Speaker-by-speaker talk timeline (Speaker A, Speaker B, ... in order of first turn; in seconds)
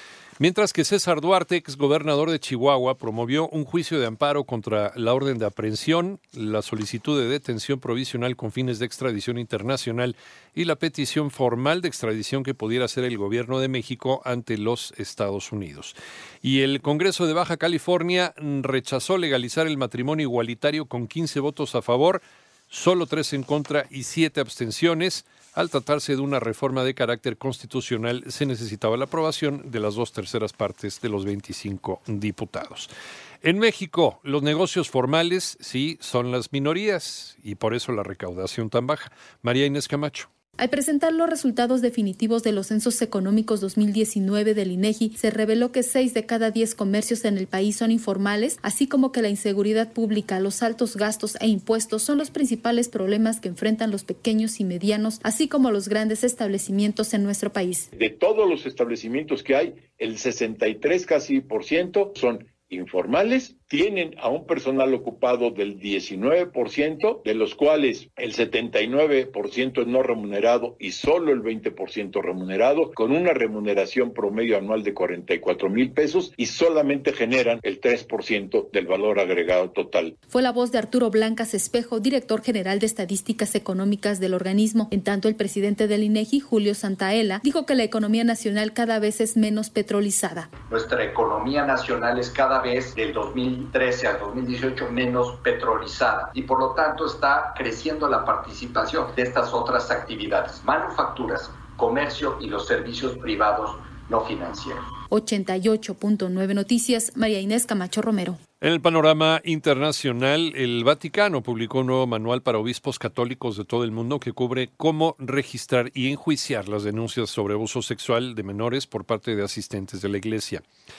Speaker A: 0.4-32.9, 33.4-40.3, 108.6-120.6
Speaker B: 40.6-57.9, 80.3-90.5, 105.1-108.4
Speaker C: 58.0-80.1
Speaker D: 90.7-104.9